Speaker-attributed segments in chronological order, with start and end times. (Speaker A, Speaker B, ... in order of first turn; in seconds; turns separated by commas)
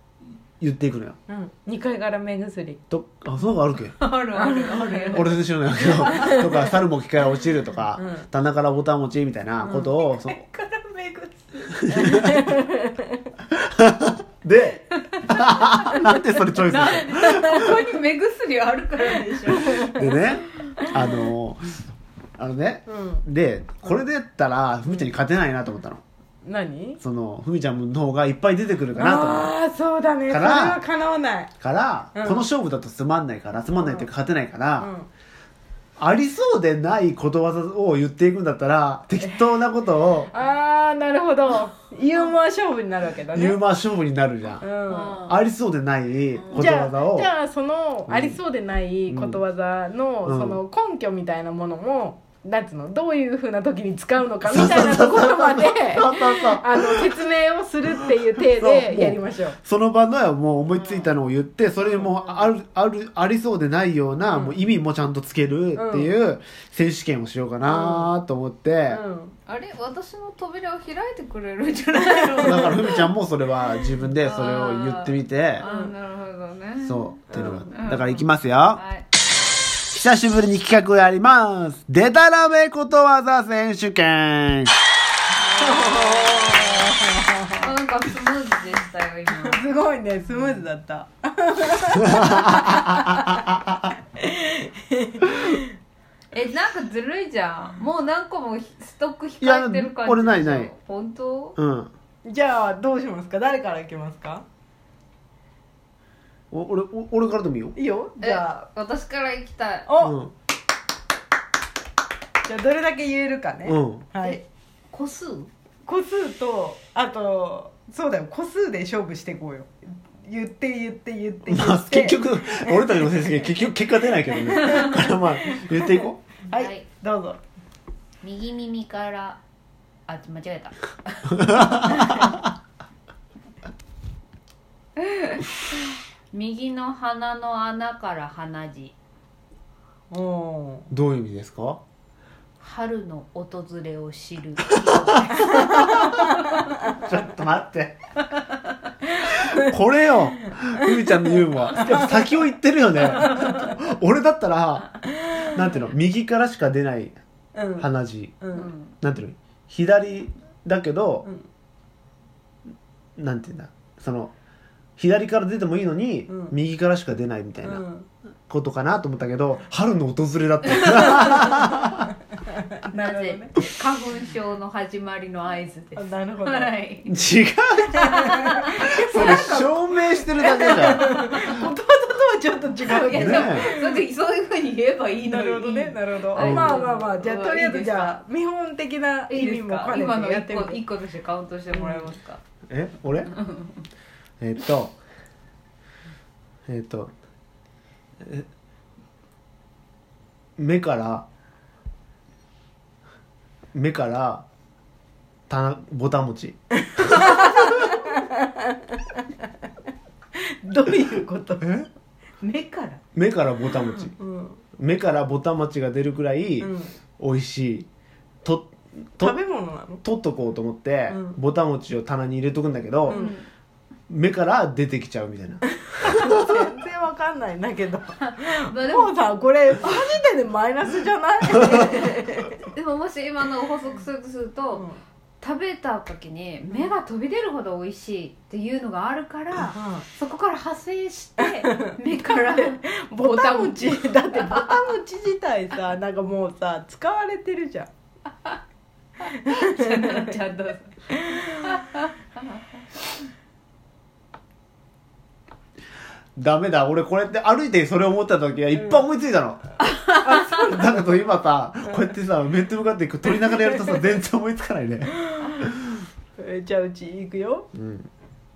Speaker A: 0.6-1.2, Speaker B: 1.3-2.8, Speaker A: 2.9-4.0, Speaker C: 4.0-6.5, Speaker B: 4.3-6.7, Speaker A: 5.1-10.4, Speaker B: 8.0-8.3, Speaker B: 9.6-9.9, Speaker C: 10.0-12.2, Speaker A: 11.8-12.4, Speaker B: 11.9-13.2, Speaker A: 13.5-17.8, Speaker C: 14.9-16.0, Speaker B: 15.9-16.2, Speaker C: 16.6-20.1, Speaker B: 17.3-17.7, Speaker B: 19.1-20.0, Speaker A: 19.9-21.8, Speaker A: 22.4-26.0, Speaker B: 22.9-23.2, Speaker B: 26.4-27.0, Speaker A: 27.0-29.5, Speaker B: 28.9-31.5, Speaker A: 30.3-30.8, Speaker A: 31.6-34.9, Speaker B: 32.1-32.5, Speaker B: 33.7-34.1, Speaker B: 34.8-35.1, Speaker A: 36.0-40.3, Speaker B: 40.3-43.6, Speaker A: 43.3-44.7, Speaker B: 44.6-45.2, Speaker C: 44.9-45.4, Speaker A: 45.2-47.3, Speaker C: 46.3-46.7, Speaker B: 46.5-59.5, Speaker A: 48.1-48.4, Speaker A: 49.1-49.4, Speaker A: 50.2-50.6, Speaker A: 54.4-57.2, Speaker A: 58.5-69.0, Speaker C: 60.7-61.1, Speaker C: 61.9-62.5, Speaker B: 64.2-64.6, Speaker B: 65.7-66.1, Speaker B: 67.6-68.1, Speaker B: 68.9-69.3, Speaker C: 69.5-73.1, Speaker B: 72.1-72.6, Speaker A: 72.4-75.7, Speaker C: 74.2-79.0, Speaker B: 75.6-75.9, Speaker A: 76.8-78.8, Speaker B: 77.3-77.7, Speaker A: 79.9-84.7, Speaker C: 85.4-89.6, Speaker B: 85.6-87.7, Speaker B: 89.4-95.7, Speaker A: 92.1-93.6, Speaker C: 96.3-101.6, Speaker A: 99.4-100.7, Speaker A: 101.5-101.9, Speaker B: 102.2-104.4, Speaker A: 106.5-107.8, Speaker B: 107.8-108.6, Speaker C: 108.2-109.9, Speaker B: 109.8-110.2, Speaker A: 110.0-110.3, Speaker B: 112.4-114.4, Speaker A: 113.6-114.1, Speaker C: 114.2-115.5, Speaker B: 115.8-123.2, Speaker A: 121.5-126.2, Speaker B: 124.4-127.4, Speaker C: 126.5-126.8, Speaker C: 128.2-129.4, Speaker C: 130.1-132.2, Speaker A: 131.4-132.4, Speaker C: 135.1-135.5, Speaker C: 136.3-138.9, Speaker B: 140.1-140.9, Speaker A: 140.9-141.8, Speaker C: 142.6-146.2, Speaker A: 145.3-146.1, Speaker B: 145.7-146.1, Speaker A: 146.9-148.0, Speaker B: 149.3-149.6, Speaker A: 149.3-157.2, Speaker B: 157.5-157.9, Speaker A: 157.8-158.4, Speaker B: 158.4-158.7, Speaker C: 158.5-158.9, Speaker A: 159.0-161.3, Speaker A: 163.2-164.3, Speaker A: 165.0-167.8, Speaker B: 166.3-166.5, Speaker B: 167.6-168.1, Speaker A: 168.5-172.1, Speaker C: 170.8-171.6, Speaker B: 172.4-173.6, Speaker C: 172.9-177.2, Speaker B: 175.9-176.7, Speaker A: 177.1-178.2, Speaker B: 177.9-184.0, Speaker C: 178.0-179.5, Speaker A: 178.8-181.1, Speaker C: 182.8-188.2, Speaker A: 183.1-183.7, Speaker B: 185.3-190.8, Speaker A: 186.3-186.8, Speaker C: 189.3-192.4, Speaker B: 191.7-192.1, Speaker A: 192.7-193.3, Speaker C: 193.2-193.8, Speaker A: 194.4-195.0, Speaker A: 196.7-197.1, Speaker A: 198.2-198.5, Speaker A: 200.6-201.2, Speaker A: 203.7-204.4, Speaker A: 205.5-207.7, Speaker B: 206.8-208.8, Speaker B: 210.3-211.9, Speaker C: 212.4-213.0, Speaker A: 213.1-214.1, Speaker B: 213.7-214.6, Speaker A: 214.8-217.9, Speaker B: 216.6-216.9, Speaker A: 218.4-219.4, Speaker B: 219.2-220.0, Speaker A: 220.0-223.2, Speaker B: 221.1-221.4, Speaker C: 223.0-223.5, Speaker B: 223.1-223.3, Speaker A: 224.1-226.6, Speaker B: 225.8-232.5, Speaker C: 228.2-229.2, Speaker C: 232.7-234.9, Speaker B: 234.7-235.0, Speaker C: 235.4-244.9, Speaker B: 239.7-240.0, Speaker B: 241.4-247.9, Speaker B: 249.2-250.3, Speaker C: 249.4-250.9, Speaker B: 251.1-251.7, Speaker C: 251.6-252.6, Speaker A: 256.4-259.6, Speaker B: 258.7-259.0, Speaker C: 259.8-260.4, Speaker B: 260.2-261.2, Speaker A: 260.5-265.1, Speaker B: 265.2-265.6, Speaker B: 266.4-267.7, Speaker A: 267.7-268.1